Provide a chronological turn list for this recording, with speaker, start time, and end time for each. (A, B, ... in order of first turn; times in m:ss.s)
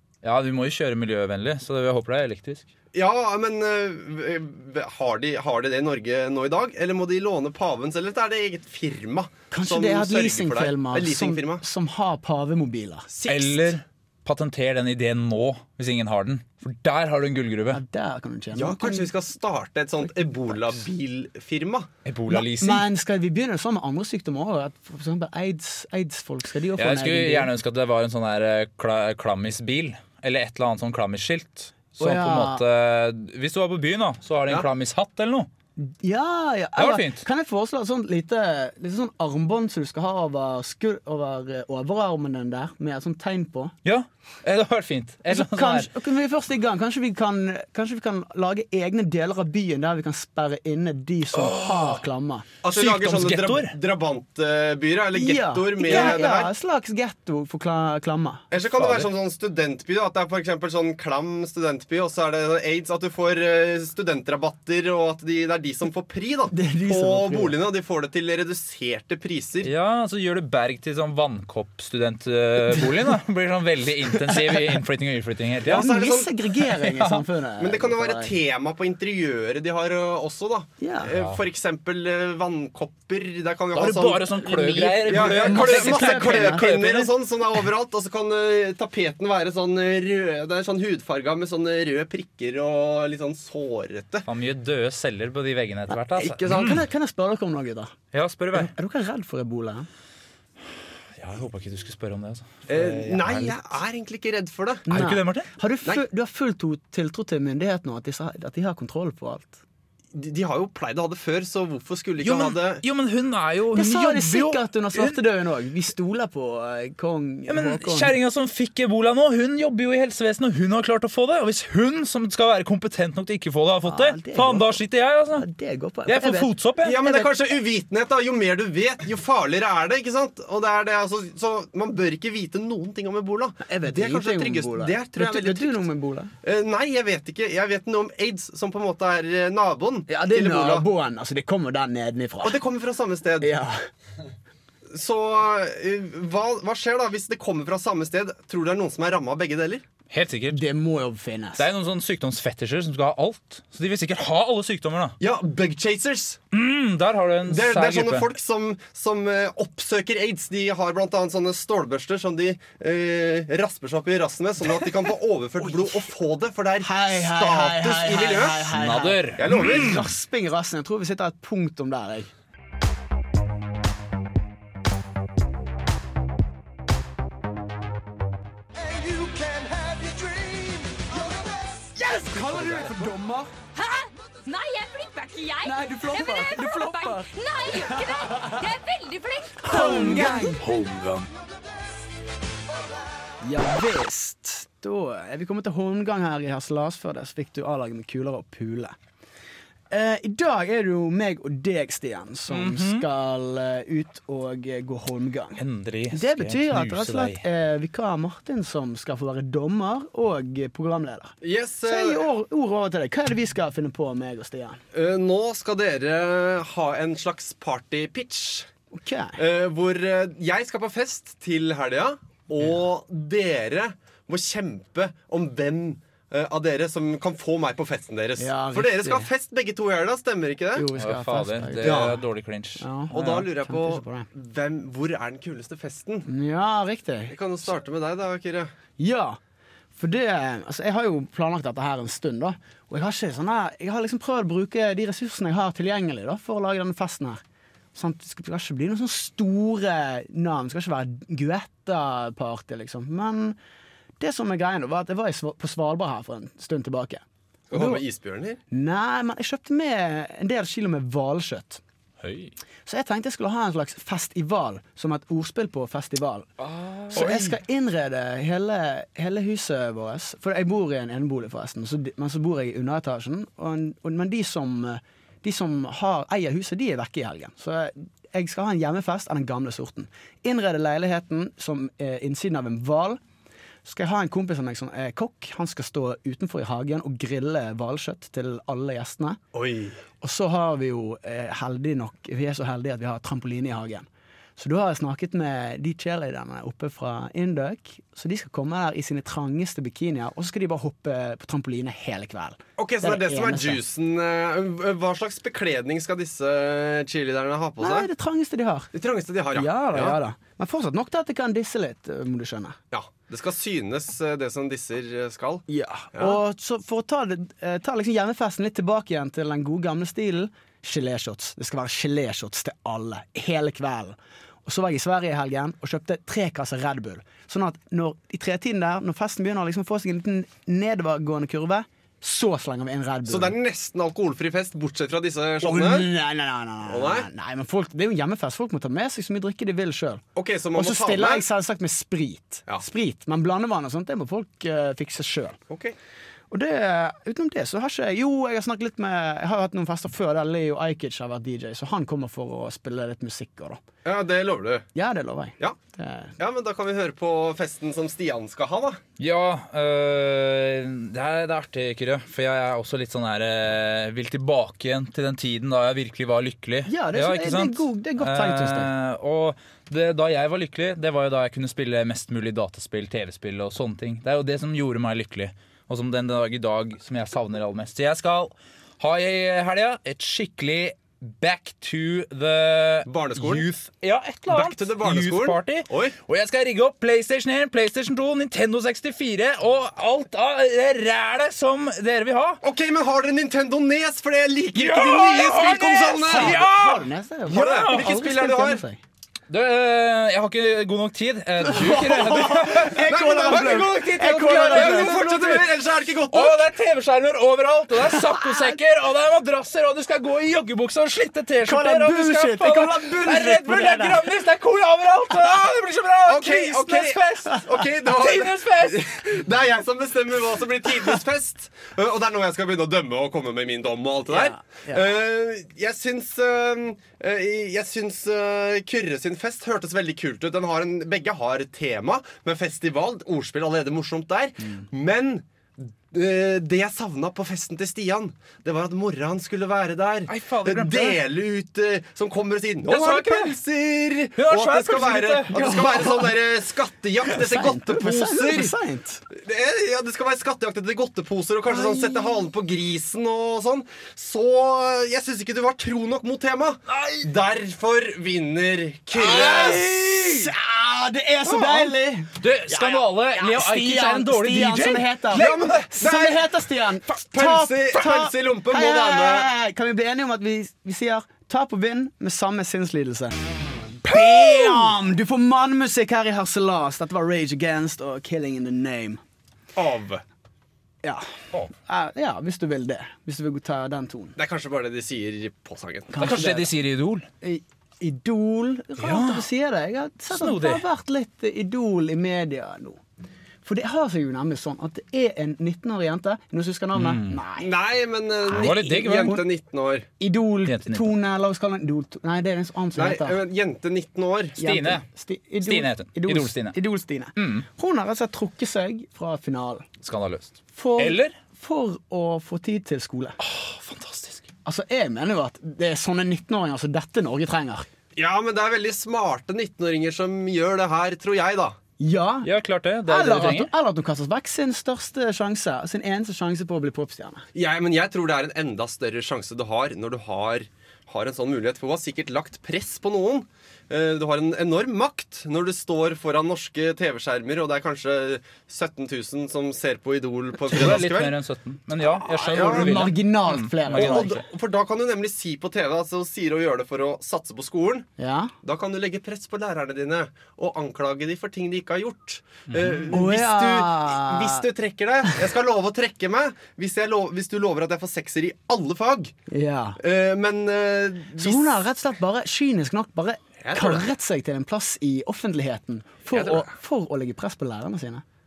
0:00.2-0:02.7 A
0:02.9-0:11.6 B
0:09.5-0:13.1 C
0:13.1-0:13.8 B
0:13.2-0:17.8 A
0:17.7-0:19.1 C
0:18.5-0:21.9 B
0:22.0-0:22.9 A
0:22.3-0:27.5 C
0:26.8-0:35.5 A
0:32.0-0:32.6 C
0:35.8-0:43.7 C
0:36.8-0:37.2 A
0:43.8-0:45.9 A
0:45.3-0:52.4 C
0:51.3-0:52.0 A
0:52.6-0:56.5 B
0:52.7-0:53.7 A
0:55.1-0:58.4 C
0:55.9-0:56.2 A
0:58.5-1:09.7 B
0:58.8-0:59.1 A
1:06.5-1:07.5 C
1:09.6-1:15.9 A
1:15.6-1:16.3 B
1:15.7-1:18.3 C
1:16.6-1:17.2 A
1:17.6-1:34.3 B
1:20.8-1:21.1 C
1:21.0-1:21.4 A
1:23.8-1:27.1 A
1:25.0-1:26.8 C
1:34.3-1:36.8 A
1:35.9-1:37.9 C
1:38.1-1:38.7 A
1:38.5-1:39.9 C
1:41.2-1:43.6 A
1:42.7-1:44.9 B
1:44.9-1:49.6 C
1:44.9-1:45.5 A
1:50.1-1:52.8 B
1:52.2-1:55.2 A
1:53.7-1:58.1 C
1:57.5-2:05.4 A
2:03.8-2:04.8 C
2:05.4-2:06.5 C
2:06.1-2:07.1 A
2:06.8-2:15.8 B
2:13.6-2:16.3 C
2:16.4-2:20.9 B
2:20.1-2:22.6 C
2:22.4-2:23.5 B
2:23.4-2:23.8 C
2:24.9-2:29.8 B
2:30.1-2:30.6 A
2:30.5-2:31.6 C
2:31.6-2:35.2 A
2:35.2-2:36.4 B
2:36.5-2:38.3 A
2:37.5-2:48.7 B
2:45.6-2:46.0 C
2:46.8-2:52.3 C
2:48.7-2:50.0 A
2:49.4-2:50.0 B
2:59.0-3:00.8 C
3:02.0-3:03.5 C
3:02.5-3:02.9 A
3:03.7-3:10.6 D
3:05.6-3:07.3 C
3:08.0-3:08.4 C
3:09.6-3:10.6 C
3:09.7-3:11.3 A
3:13.4-3:18.9 C
3:19.9-3:31.3 C
3:22.5-3:23.0 A
3:25.6-3:27.4 A
3:31.4-3:32.2 B
3:31.8-3:34.8 C
3:34.9-3:38.7 B
3:38.9-3:39.4 C
3:39.4-3:50.9 B
3:48.4-3:49.3 C
3:50.7-3:52.2 C
3:51.0-3:53.4 A
3:51.8-3:52.2 B
3:52.8-3:54.3 C
3:53.1-3:56.3 B
3:56.3-3:57.4 C
3:57.3-3:58.7 B
3:59.0-3:59.4 C
4:00.0-4:07.4 C
4:07.9-4:13.6 C
4:14.2-4:18.0 C
4:17.7-4:18.6 B
4:18.7-4:21.8 C
4:22.2-4:22.5 A
4:22.8-4:26.5 C
4:26.6-4:27.5 A
4:27.1-4:43.2 C
4:27.1-4:27.5 B
4:43.8-4:49.4 C
4:49.5-4:50.0 B
4:50.2-5:03.8 C
5:02.8-5:08.1 B
5:07.8-5:08.9 C
5:08.9-5:10.2 B
5:09.5-5:12.8 C
5:12.9-5:16.4 B
5:15.7-5:33.5 C
5:33.3-5:36.1 B
5:35.6-5:40.2 C
5:36.9-5:37.3 B
5:40.3-5:41.4 B
5:40.7-5:45.6 C
5:45.7-5:46.0 B
5:46.5-5:53.8 C
5:54.0-5:54.8 B
5:54.9-5:56.4 C
5:56.4-5:59.0 B
5:59.2-6:32.6 A
6:06.9-6:08.9 C
6:23.0-6:23.6 B
6:24.5-6:26.2 B
6:32.6-6:36.6 B
6:34.7-6:38.2 A
6:36.1-6:39.0 C
6:37.5-6:38.8 B
6:39.5-6:45.7 A
6:41.6-6:45.2 C
6:42.8-6:46.7 B
6:46.3-6:59.1 A
6:48.0-6:48.8 C
6:51.6-6:54.2 C
6:56.2-7:28.8 B
7:04.3-7:05.0 C
7:20.3-7:21.2 A
7:22.9-7:23.6 A
7:24.4-7:25.8 A
7:25.5-7:26.3 C
7:27.2-7:29.2 C
7:29.3-7:39.9 B
7:31.7-7:32.3 C
7:36.9-7:37.3 A
7:39.2-7:53.4 C
7:39.2-7:40.5 A
7:42.4-7:45.8 A
7:45.3-7:46.5 B
7:47.1-7:49.5 B
7:54.0-7:59.2 C
7:59.8-8:00.2 B
8:01.0-8:04.4 C
8:04.4-8:06.4 B
8:06.1-8:06.7 C
8:06.2-8:07.3 A
8:07.4-8:13.0 C
8:09.0-8:09.4 A
8:10.3-8:10.8 A
8:13.6-8:17.7 C
8:16.9-8:17.4 A
8:17.6-8:20.1 B
8:18.5-8:19.4 A
8:20.2-8:23.4 C
8:20.6-8:21.1 A
8:23.0-8:24.6 B
8:24.6-8:25.0 A
8:24.6-8:29.8 C
8:25.6-8:26.7 A
8:27.4-8:27.6 A
8:30.0-8:31.3 A
8:30.8-8:33.4 C
8:33.4-8:34.5 A
8:34.6-8:37.9 C
8:38.1-8:41.8 B
8:42.0-8:42.5 C
8:42.4-8:43.7 A
8:43.1-8:47.4 C
8:47.5-9:01.3 B
9:00.7-9:04.4 A
9:02.0-9:04.4 C
9:02.5-9:03.1 B
9:03.9-9:08.1 B
9:08.2-9:08.5 C
9:08.6-9:19.3 B
9:12.7-9:13.1 A
9:13.1-9:14.6 C
9:19.5-9:20.0 C
9:20.0-9:21.8 B
9:21.4-9:28.2 C
9:23.6-9:24.0 B
9:26.3-9:26.7 B